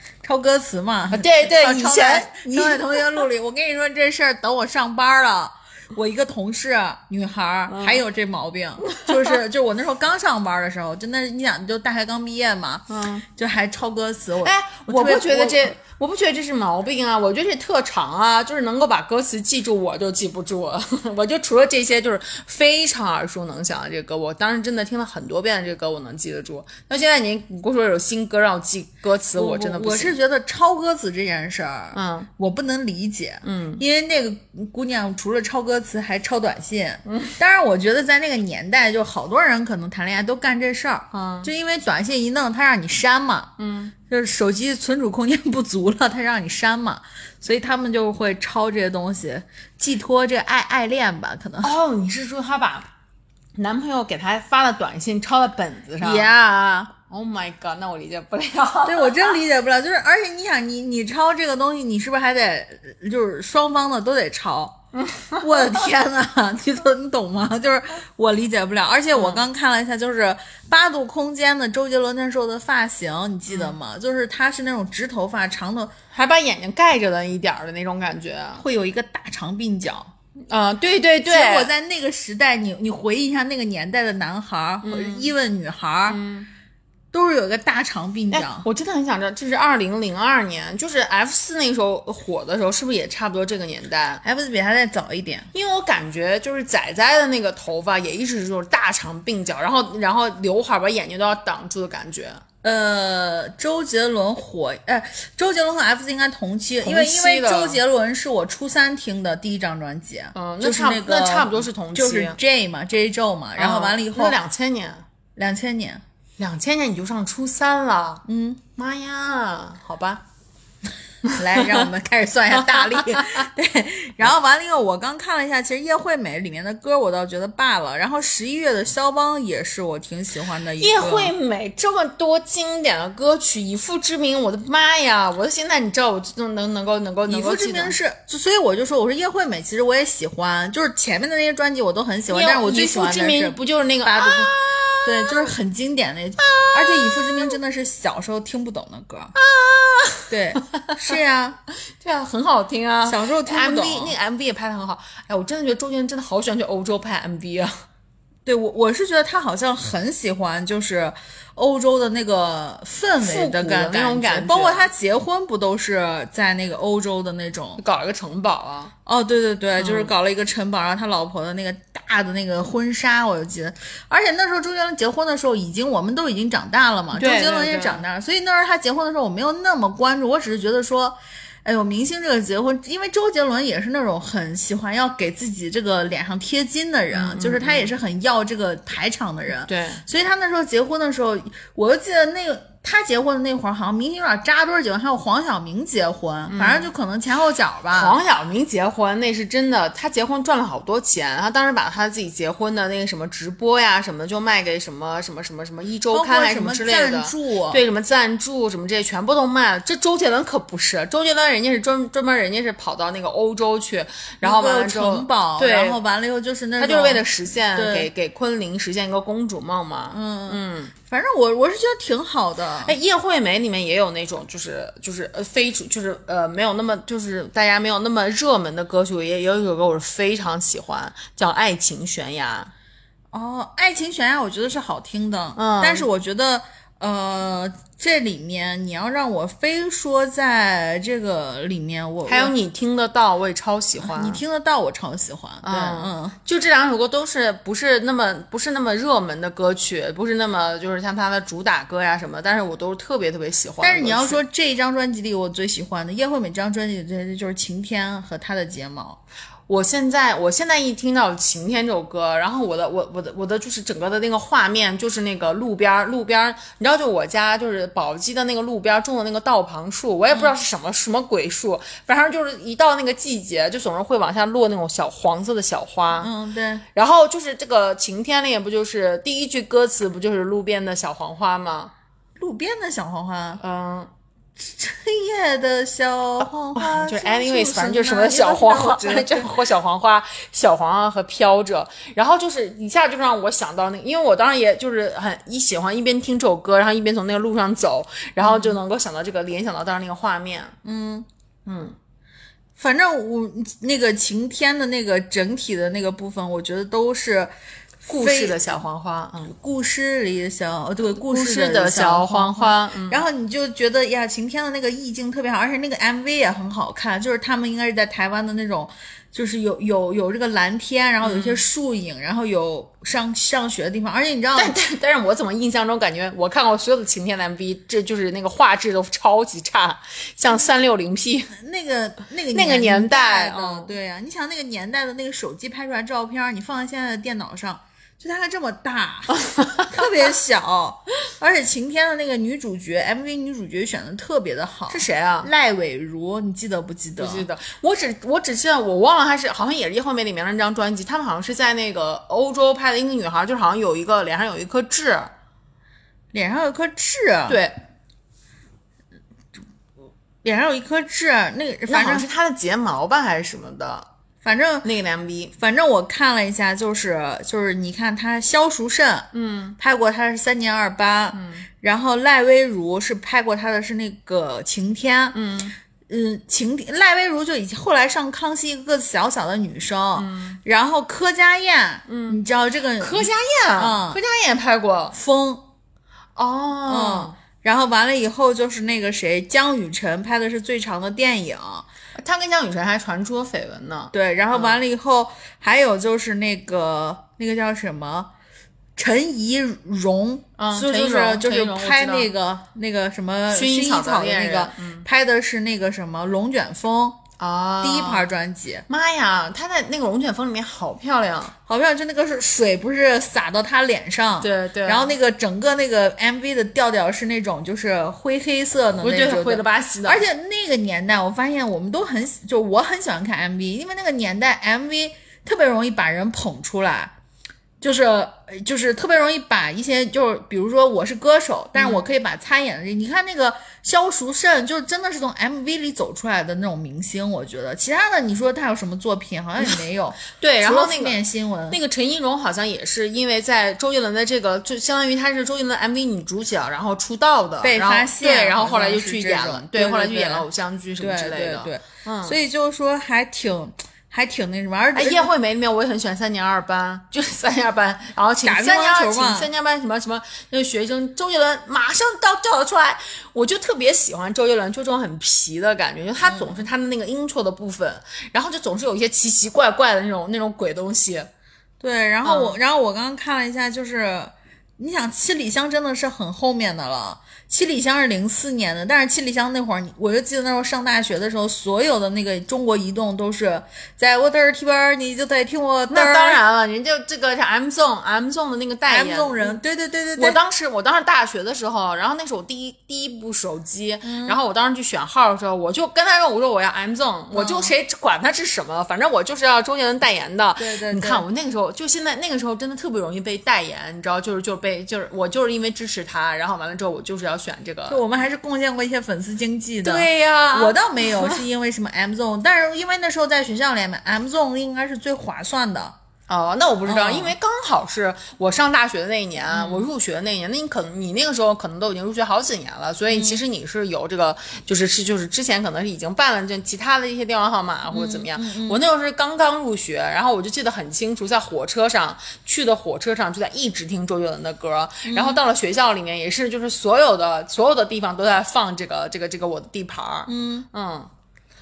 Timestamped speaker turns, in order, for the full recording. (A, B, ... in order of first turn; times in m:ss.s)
0:00.2-0:15.7 A
0:01.1-0:03.2 B
0:07.7-0:08.0 B
0:08.8-0:09.4 B
0:12.9-0:13.2 B
0:14.4-0:30.2 B
0:29.4-0:43.5 A
0:31.9-0:32.3 B
0:33.4-0:33.8 B
0:37.1-0:37.4 B
0:41.1-0:41.5 B
0:43.6-0:43.9 B
0:44.1-0:51.7 A
0:51.6-0:52.9 B
0:53.6-0:56.3 B
0:56.0-0:56.9 A
0:57.0-0:59.4 B
0:58.9-1:04.8 A
1:05.0-1:05.4 B
1:05.3-1:15.9 A
1:09.1-1:09.4 B
1:13.5-1:13.8 B
1:16.1-1:18.6 B
1:18.6-1:20.1 A
1:20.5-1:21.7 B
1:21.2-1:26.2 A
1:24.8-1:25.3 B
1:26.1-1:26.5 B
1:27.1-1:28.7 A
1:28.3-1:34.2 B
1:34.2-1:35.5 A
1:35.5-1:42.4 B
1:42.6-1:54.4 A
1:46.8-1:47.8 B
1:50.4-1:52.4 B
1:53.6-1:55.0 B
1:55.4-1:56.0 A
1:56.4-1:58.2 B
1:58.3-1:58.6 A
1:58.8-2:00.2 B
2:01.2-2:01.9 B
2:01.4-2:11.3 A
2:02.5-2:03.5 B
2:10.8-2:18.0 B
2:17.3-2:24.5 A
2:22.3-2:25.5 B
2:25.0-2:29.3 A
2:26.4-2:27.6 B
2:29.4-2:31.1 B
2:30.3-2:31.6 A
2:31.9-2:37.8 B
2:33.1-2:34.2 A
2:38.5-2:47.8 A
2:43.2-2:44.9 B
2:47.8-2:48.9 B
2:49.1-3:18.2 A
2:49.8-2:50.1 B
2:57.1-2:58.1 B
3:07.1-3:07.9 B
3:09.7-3:10.0 B
3:16.5-3:16.9 B
3:17.9-3:36.0 B
3:26.1-3:27.8 A
3:34.4-3:38.1 A
3:36.8-3:40.9 B
3:40.1-3:43.0 A
3:42.8-3:52.7 B
3:53.3-4:02.5 A
3:55.6-3:56.1 B
4:02.2-4:04.4 B
4:04.0-4:06.4 A
4:05.6-4:14.4 B
4:13.8-4:19.2 A
4:19.7-4:36.3 B
4:36.2-4:36.8 A
4:37.0-4:41.9 B
4:42.4-4:43.6 A
4:43.6-4:44.1 B
4:44.6-4:49.6 A
4:46.7-5:00.8 B
4:58.4-4:58.8 A
5:00.8-5:01.3 A
5:01.7-5:02.0 B
5:02.8-5:07.5 A
5:08.0-5:08.6 A
5:08.1-5:09.5 B
5:09.5-5:24.8 A
5:11.1-5:13.2 B
5:21.2-5:21.6 B
5:24.5-5:31.5 B
5:31.5-5:47.5 A
5:32.5-5:33.9 B
5:39.6-5:39.9 B
5:44.9-5:45.5 B
5:47.2-5:55.3 B
5:56.3-5:57.6 A
5:57.5-5:57.8 B
6:00.4-6:02.3 A
6:01.9-6:04.1 B
6:04.4-6:04.9 A
6:04.8-6:05.5 B
6:05.6-6:15.4 A
6:09.3-6:09.8 B
6:11.3-6:11.7 B
6:15.3-6:15.8 B
6:16.1-6:24.2 A
6:20.2-6:20.6 B
6:22.1-6:22.4 B
6:23.0-6:25.2 B
6:25.1-6:25.6 A
6:26.4-6:27.4 B
6:26.9-6:31.9 A
6:32.2-6:34.8 B
6:34.1-6:38.3 A
6:39.0-6:47.2 A
6:40.6-6:42.3 B
6:43.5-6:45.0 B
6:47.4-6:48.3 B
6:47.8-6:48.9 A
6:48.9-6:51.5 B
6:51.7-7:07.1 A
6:54.4-6:55.2 B
6:59.0-7:00.2 B
7:07.8-7:21.8 A
7:11.8-7:12.0 B
7:20.3-7:21.2 B
7:21.7-7:32.4 B
7:27.6-7:30.5 A
7:31.0-7:35.3 A
7:35.0-7:51.3 B
7:38.4-7:39.5 A
7:46.2-7:46.6 A
7:51.8-8:06.4 A
7:52.2-7:52.6 B
8:05.9-8:09.6 B
8:08.9-8:10.4 A
8:10.2-8:28.0 B
8:14.0-8:14.4 A
8:17.3-8:17.7 A
8:20.6-8:21.3 A
8:27.9-8:36.0 A
8:29.8-8:31.4 B
8:36.3-9:01.1 B
8:36.9-8:37.4 A
8:39.5-8:39.9 A
8:43.1-8:43.4 A
8:47.9-8:48.8 A
8:55.1-8:55.4 A
9:00.3-9:00.7 A